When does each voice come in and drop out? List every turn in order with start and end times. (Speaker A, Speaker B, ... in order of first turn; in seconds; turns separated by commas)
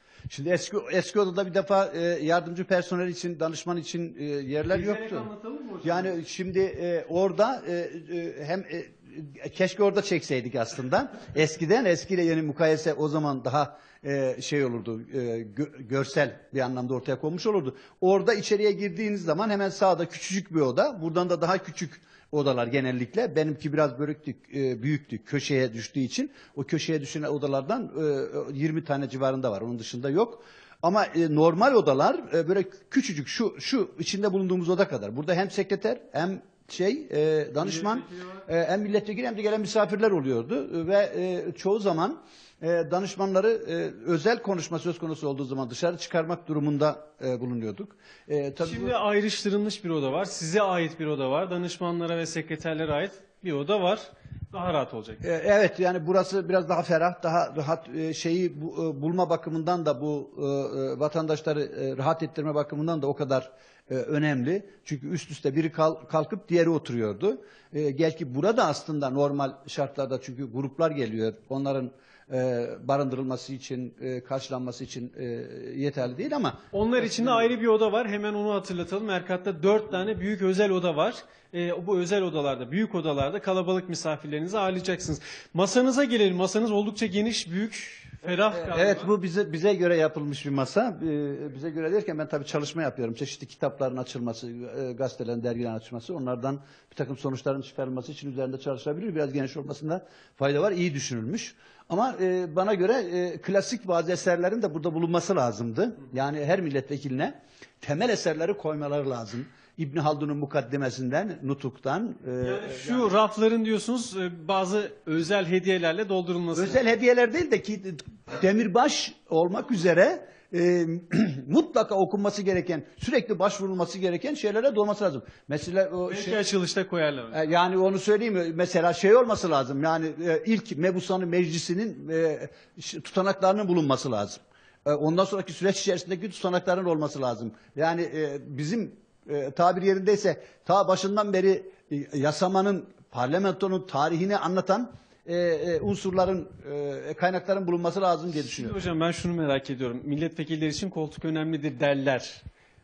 Speaker A: 0.3-5.3, Speaker B: 4.7-6.1, Speaker A: 5.8-48.9, Speaker B: 37.6-38.4, Speaker B: 48.6-55.2, Speaker A: 55.2-77.5, Speaker B: 76.7-89.1, Speaker A: 88.5-113.1, Speaker B: 112.4-116.8, Speaker A: 116.5-126.4, Speaker B: 126.1-127.5, Speaker A: 127.3-148.8, Speaker B: 148.3-152.4